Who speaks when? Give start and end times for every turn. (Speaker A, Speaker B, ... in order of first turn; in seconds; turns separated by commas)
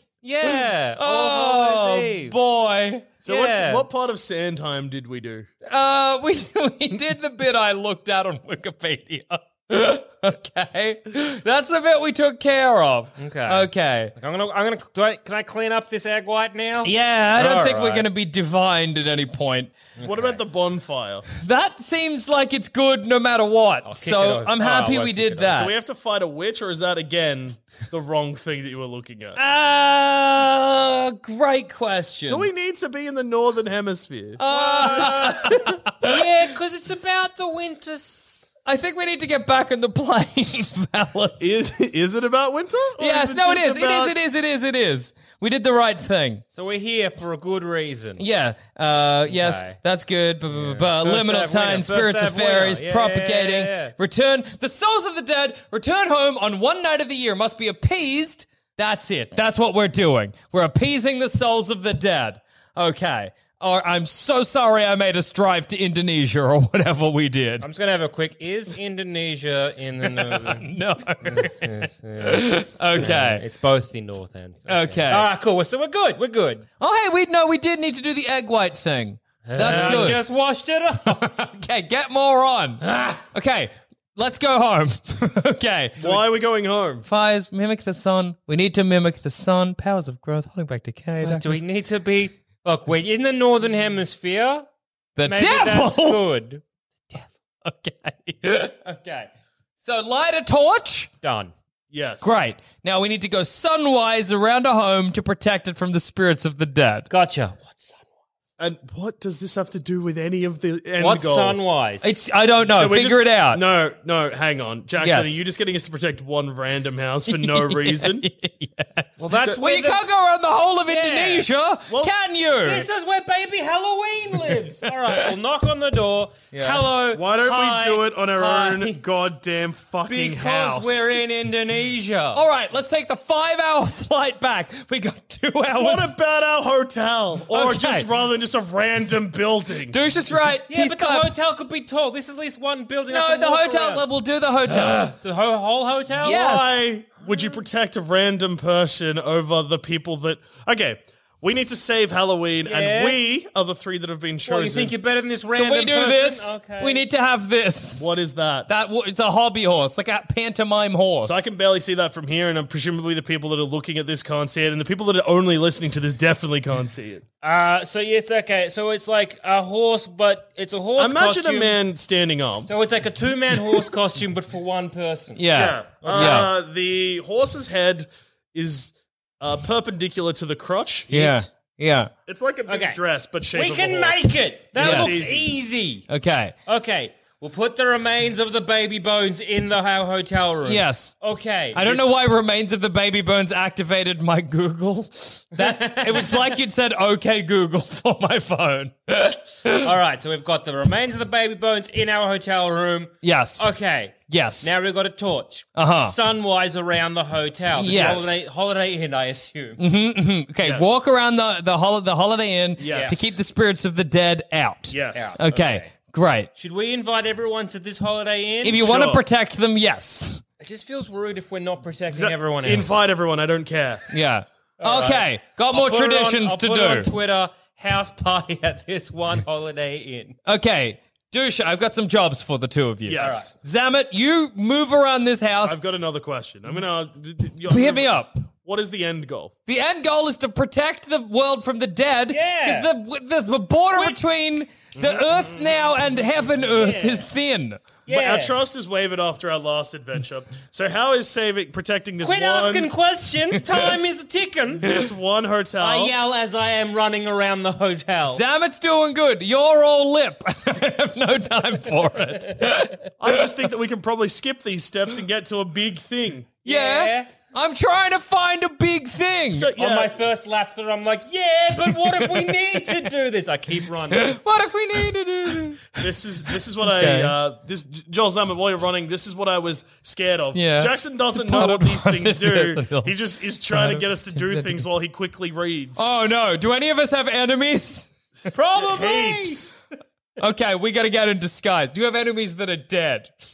Speaker A: 0.2-2.4, Speaker B: 0.4-3.1, Speaker C: 3.2-5.5, Speaker A: 3.2-3.9, Speaker B: 5.7-14.1, Speaker A: 13.2-18.1, Speaker B: 16.8-19.7, Speaker A: 20.0-20.4, Speaker C: 20.0-21.3, Speaker B: 21.3-25.7, Speaker A: 23.9-25.6, Speaker C: 25.5-29.4, Speaker B: 29.4-32.5, Speaker C: 32.3-34.4, Speaker B: 34.4-36.2, Speaker A: 34.5-38.5, Speaker C: 34.9-35.8, Speaker B: 38.6-41.6, Speaker C: 41.4-44.1, Speaker B: 43.0-46.4, Speaker A: 46.5-48.2, Speaker B: 48.2-67.7, Speaker A: 49.3-49.8, Speaker A: 50.5-53.9, Speaker A: 67.6-70.7, Speaker B: 70.2-71.7, Speaker A: 71.2-76.7, Speaker B: 72.2-73.4, Speaker B: 74.7-75.3, Speaker B: 76.8-80.2, Speaker A: 79.5-81.3, Speaker C: 79.6-80.2, Speaker B: 81.0-86.2, Speaker A: 82.8-83.2, Speaker C: 86.0-87.0, Speaker B: 87.0-91.6, Speaker A: 91.2-94.7, Speaker B: 95.2-96.2, Speaker A: 95.2-96.6, Speaker B: 97.1-99.3, Speaker B: 99.8-101.1, Speaker A: 101.2-101.5, Speaker C: 101.9-102.3, Speaker B: 102.2-107.1, Speaker A: 107.1-108.0, Speaker C: 108.6-111.6, Speaker A: 111.0-112.1, Speaker B: 112.0-113.6, Speaker C: 112.6-118.2, Speaker B: 115.0-115.4, Speaker B: 117.3-122.9, Speaker A: 119.2-120.0, Speaker A: 120.9-121.5, Speaker C: 121.9-122.1, Speaker A: 122.6-129.0, Speaker B: 126.5-126.9, Speaker C: 127.1-131.2, Speaker A: 130.1-132.4, Speaker B: 132.3-136.2, Speaker C: 135.8-140.0, Speaker B: 137.5-138.1, Speaker B: 139.9-141.3, Speaker A: 140.7-144.0, Speaker B: 143.1-145.1, Speaker A: 144.7-146.4, Speaker B: 146.2-146.8, Speaker C: 146.2-154.9, Speaker A: 147.2-147.6, Speaker A: 152.6-153.2, Speaker A: 154.4-157.0, Speaker B: 155.5-158.1, Speaker C: 157.9-158.7, Speaker B: 158.7-161.4, Speaker C: 161.2-167.2, Speaker A: 167.4-171.8, Speaker C: 171.0-172.7, Speaker A: 172.7-176.5, Speaker B: 175.3-176.5, Speaker C: 175.5-181.4, Speaker B: 181.1-182.1, Speaker C: 182.3-185.6, Speaker A: 182.7-183.0, Speaker A: 183.5-186.1, Speaker B: 184.8-185.2, Speaker B: 186.1-186.5, Speaker A: 186.7-192.2, Speaker B: 190.6-191.2, Speaker B: 191.7-199.9, Speaker A: 195.6-196.5, Speaker A: 199.7-209.8, Speaker B: 203.2-203.7, Speaker B: 204.3-204.7, Speaker B: 205.8-206.2, Speaker B: 207.7-208.4, Speaker C: 207.8-208.3, Speaker B: 209.8-216.5, Speaker C: 210.6-211.0, Speaker C: 212.8-213.3, Speaker A: 212.8-213.2, Speaker C: 214.9-215.4, Speaker A: 215.1-215.9, Speaker A: 216.6-218.8, Speaker B: 218.6-220.4, Speaker C: 218.7-219.2, Speaker A: 220.6-222.9, Speaker C: 222.1-224.0, Speaker B: 224.1-227.1, Speaker A: 224.8-230.3, Speaker B: 230.4-235.8, Speaker C: 233.1-233.5, Speaker A: 233.2-233.5, Speaker C: 235.6-239.5, Speaker B: 237.7-238.4, Speaker B: 239.7-247.8, Speaker A: 242.3-242.9, Speaker C: 245.0-245.6, Speaker A: 246.7-247.3, Speaker A: 248.1-248.6, Speaker C: 248.1-252.9, Speaker A: 252.2-255.0, Speaker C: 254.8-256.1, Speaker A: 255.8-258.4, Speaker B: 258.3-263.5, Speaker C: 263.2-266.6, Speaker A: 266.6-267.3, Speaker B: 266.6-269.7, Speaker C: 269.5-270.1, Speaker A: 269.8-274.4, Speaker B: 274.1-276.1, Speaker C: 276.0-286.1, Speaker B: 276.9-277.4, Speaker B: 280.5-283.1, Speaker B: 283.7-284.9, Speaker B: 285.9-288.1, Speaker A: 288.5-289.7, Speaker C: 288.8-289.7, Speaker B: 290.4-293.3